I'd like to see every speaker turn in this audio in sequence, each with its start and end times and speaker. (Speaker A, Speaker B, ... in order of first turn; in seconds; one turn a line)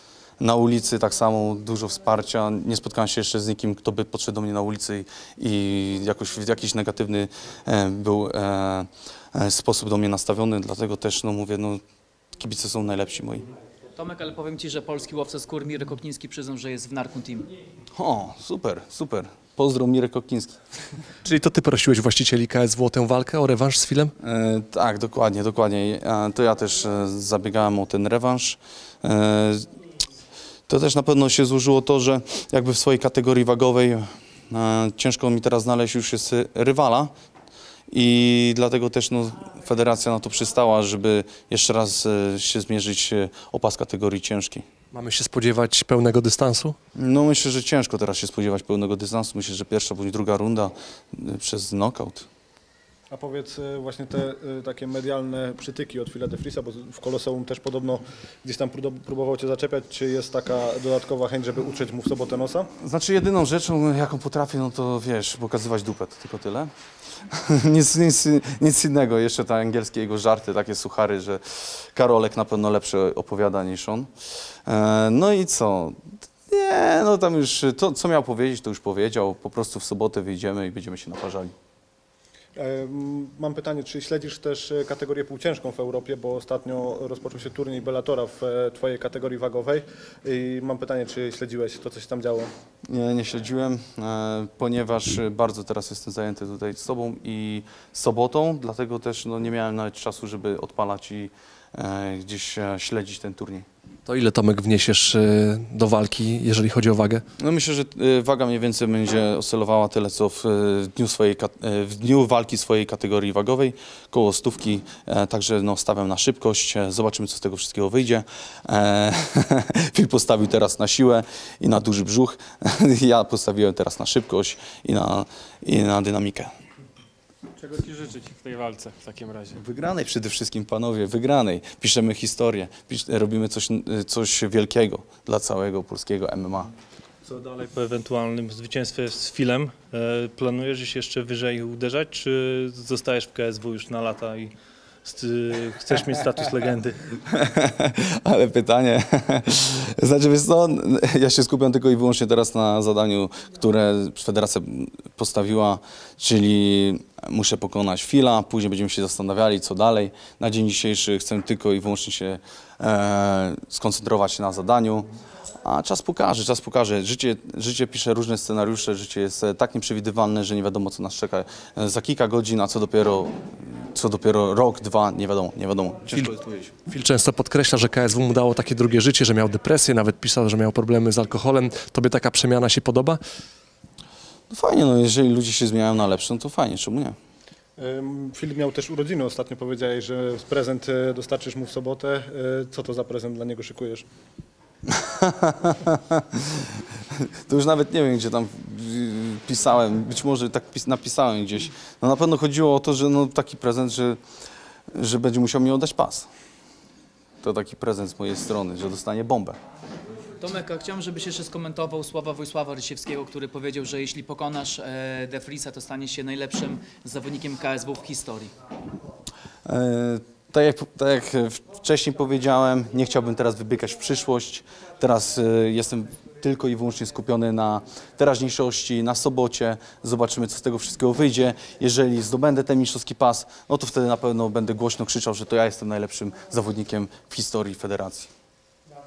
Speaker A: 0.4-11.8
Speaker A: 12.4-13.5
Speaker B: 13.9-17.5
Speaker A: 17.9-20.6
Speaker C: 21.2-24.1
Speaker A: 24.2-29.7
Speaker A: 30.7-37.1
Speaker A: 37.9-44.6
Speaker C: 44.9-46.8
Speaker A: 47.0-52.3
Speaker D: 53.1-62.7
Speaker A: 62.8-66.7
Speaker A: 67.3-74.1
Speaker A: 74.7-81.5
Speaker D: 82.6-92.5
Speaker A: 92.9-103.7
Speaker C: 104.1-107.2
Speaker A: 107.4-126.5
Speaker E: 127.6-129.6
Speaker A: 129.6-136.7
Speaker F: 137.2-147.0
Speaker A: 147.2-165.1
Speaker A: 165.6-176.7
Speaker C: 176.9-183.2
Speaker A: 184.5-187.2
Speaker D: 187.8-194.1
Speaker A: 194.9-196.6
Speaker A: 197.4-204.2
Speaker A: 204.9-206.3
Speaker A: 207.4-209.6
Speaker B: 210.4-218.5
Speaker A: 219.6-238.3